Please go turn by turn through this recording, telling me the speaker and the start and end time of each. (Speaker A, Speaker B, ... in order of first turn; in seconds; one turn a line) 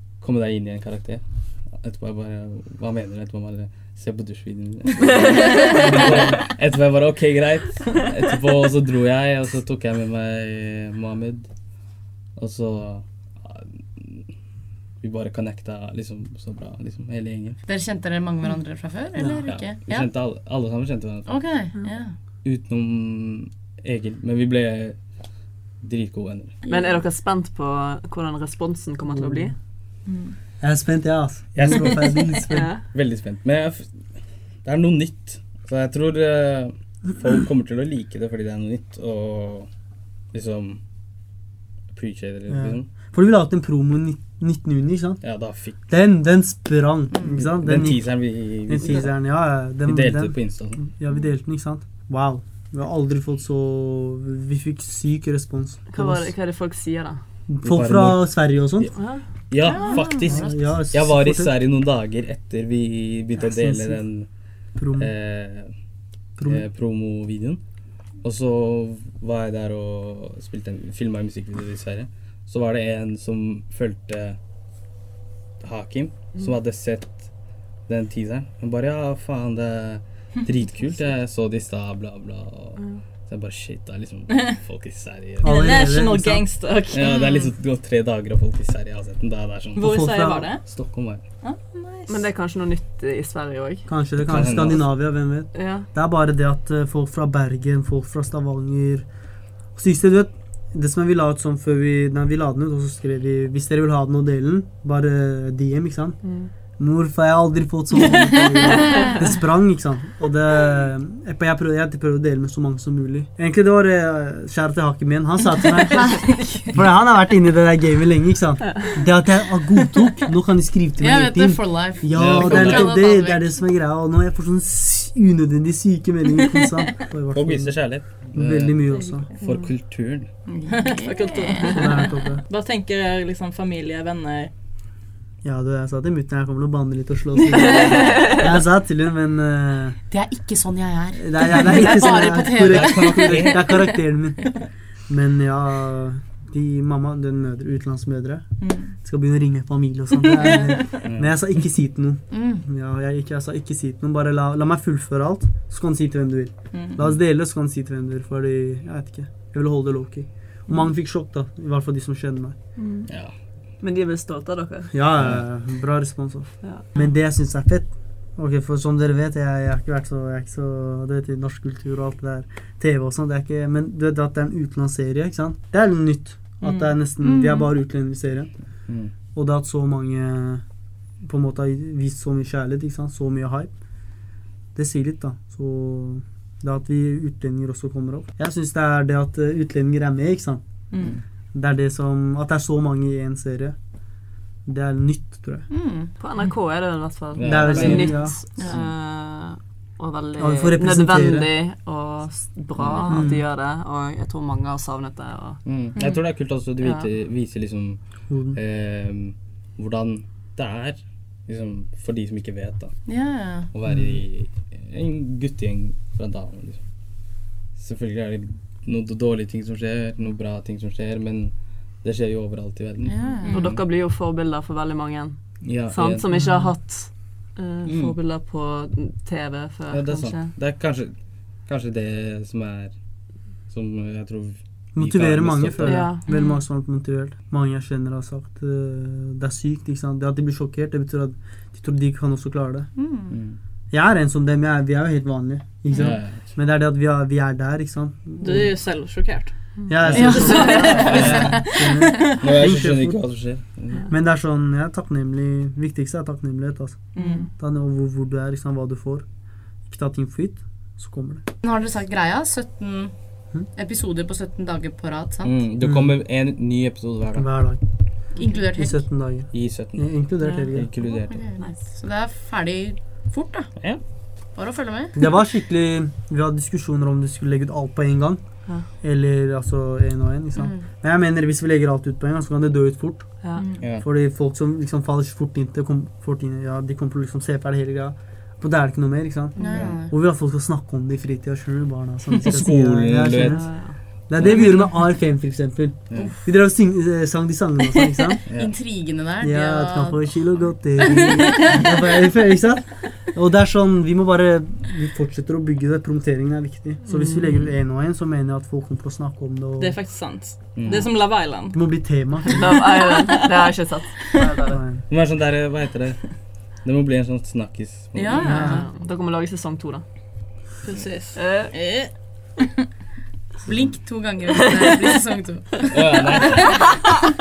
Speaker A: 0.1-11.5
Speaker B: 5.0-5.9
Speaker A: 12.3-14.3
Speaker A: 15.0-17.6
Speaker C: 17.6-20.2
Speaker D: 19.1-19.4
Speaker A: 19.4-21.5
Speaker C: 21.2-22.1
Speaker A: 22.4-25.3
Speaker A: 25.8-26.6
Speaker B: 26.6-29.5
Speaker D: 29.0-29.5
Speaker E: 30.1-30.3
Speaker D: 30.6-32.8
Speaker A: 31.5-39.7
Speaker B: 32.5-32.8
Speaker A: 40.3-40.8
Speaker A: 41.9-42.9
Speaker D: 42.5-56.3
Speaker A: 45.2-45.9
Speaker C: 47.1-47.5
Speaker A: 47.4-50.9
Speaker B: 55.9-57.2
Speaker D: 57.5-58.9
Speaker A: 57.6-58.9
Speaker B: 59.0-59.2
Speaker A: 59.5-64.3
Speaker C: 59.6-60.8
Speaker D: 60.2-61.5
Speaker D: 63.4-64.0
Speaker D: 64.7-65.1
Speaker A: 65.0-65.7
Speaker D: 66.4-66.6
Speaker A: 66.4-67.6
Speaker A: 68.2-74.4
Speaker A: 75.6-85.8
Speaker B: 82.8-83.0
Speaker E: 84.3-84.6
Speaker D: 85.4-86.5
Speaker E: 85.4-87.3
Speaker A: 86.9-90.0
Speaker C: 87.0-87.5
Speaker E: 89.8-90.6
Speaker D: 89.8-90.6
Speaker A: 90.6-91.2
Speaker E: 91.4-92.3
Speaker B: 92.1-93.9
Speaker D: 93.9-99.1
Speaker A: 94.2-95.0
Speaker B: 95.5-95.9
Speaker D: 99.7-106.2
Speaker B: 106.2-106.5
Speaker D: 106.8-129.3
Speaker C: 116.0-116.7
Speaker C: 121.0-123.7
Speaker A: 122.1-123.1
Speaker A: 127.3-130.4
Speaker B: 129.4-129.7
Speaker C: 130.4-132.0
Speaker E: 130.7-134.5
Speaker D: 131.7-132.4
Speaker D: 135.4-140.0
Speaker C: 140.1-143.9
Speaker D: 141.1-162.6
Speaker A: 142.5-143.8
Speaker C: 148.6-148.9
Speaker C: 150.4-150.7
Speaker A: 151.0-151.4
Speaker C: 152.3-152.6
Speaker B: 162.8-163.1
Speaker A: 163.1-163.3
Speaker B: 163.8-164.9
Speaker D: 164.9-178.5
Speaker A: 165.2-165.4
Speaker C: 177.2-177.7
Speaker A: 178.9-179.1
Speaker D: 179.3-180.6
Speaker D: 181.2-183.7
Speaker D: 184.7-190.6
Speaker D: 191.5-193.8
Speaker D: 194.7-195.7
Speaker C: 195.7-196.1
Speaker B: 196.2-205.6
Speaker A: 197.3-198.9
Speaker D: 197.4-198.4
Speaker D: 200.4-201.5
Speaker A: 202.8-203.2
Speaker D: 203.1-203.4
Speaker A: 205.6-213.0
Speaker B: 206.8-207.1
Speaker D: 208.3-208.6
Speaker C: 213.1-213.7
Speaker A: 213.7-223.8
Speaker D: 213.9-214.2
Speaker C: 223.0-223.5
Speaker E: 223.4-223.7
Speaker B: 223.5-230.5
Speaker A: 225.6-226.3
Speaker D: 226.3-226.8
Speaker A: 227.8-228.2
Speaker A: 229.9-233.0
Speaker A: 233.6-236.1
Speaker D: 234.9-242.9
Speaker B: 235.8-236.2
Speaker C: 236.3-236.6
Speaker C: 242.9-243.4
Speaker A: 243.3-243.6
Speaker D: 243.9-248.7
Speaker A: 245.9-246.5
Speaker E: 248.4-249.7
Speaker B: 249.8-251.0
Speaker D: 249.9-259.3
Speaker A: 250.0-251.7
Speaker C: 250.2-252.3
Speaker E: 250.4-252.2
Speaker A: 252.4-254.1
Speaker B: 257.2-257.4
Speaker E: 257.2-257.5
Speaker D: 259.8-261.4
Speaker C: 261.6-265.6
Speaker A: 265.4-267.7
Speaker D: 265.8-266.2
Speaker D: 267.3-270.9
Speaker B: 268.4-268.6
Speaker C: 268.4-269.3
Speaker A: 269.5-271.5
Speaker C: 271.0-275.1
Speaker A: 273.8-274.1
Speaker D: 275.1-298.4
Speaker C: 280.5-280.9
Speaker C: 283.6-283.8
Speaker C: 289.6-290.1
Speaker A: 289.6-290.0
Speaker A: 292.4-294.5
Speaker B: 293.4-294.0
Speaker A: 296.1-296.3
Speaker C: 296.1-296.4
Speaker C: 298.5-301.8
Speaker A: 298.5-298.8
Speaker D: 299.4-310.0
Speaker B: 307.1-307.6
Speaker E: 309.8-311.8
Speaker A: 310.7-311.1
Speaker D: 311.7-312.8
Speaker B: 312.5-314.8
Speaker D: 314.7-315.0
Speaker A: 315.1-318.6
Speaker C: 318.1-318.9
Speaker B: 318.4-320.0
Speaker D: 318.4-318.8
Speaker E: 320.8-322.7
Speaker B: 321.3-321.7
Speaker C: 323.6-327.0
Speaker A: 325.9-327.0